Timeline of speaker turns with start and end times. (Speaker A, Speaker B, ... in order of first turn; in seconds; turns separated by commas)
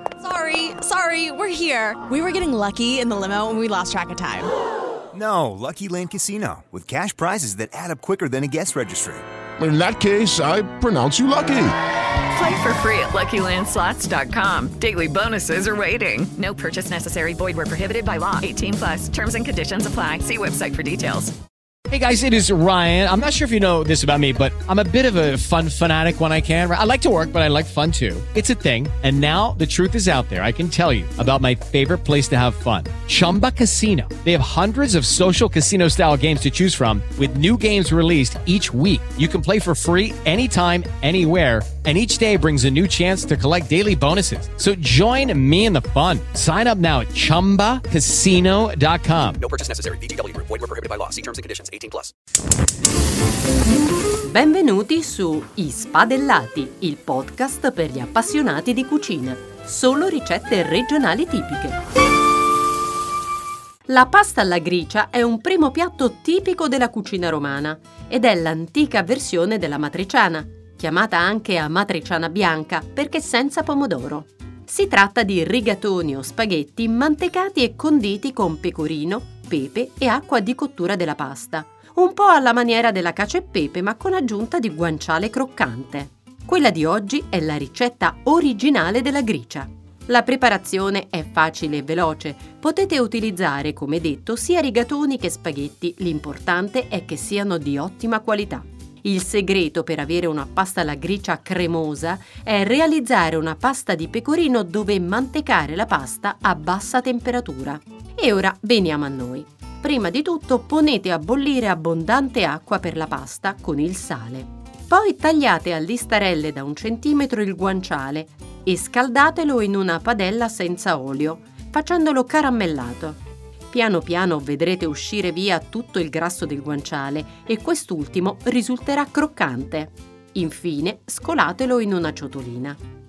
Speaker A: 0.2-4.5, Speaker B: 5.1-9.2, Speaker C: 9.6-11.7, Speaker D: 12.3-21.3, Speaker E: 21.9-49.4, Speaker F: 49.4-52.1, Speaker G: 54.2-61.8, Speaker G: 63.9-123.2, Speaker G: 123.7-132.8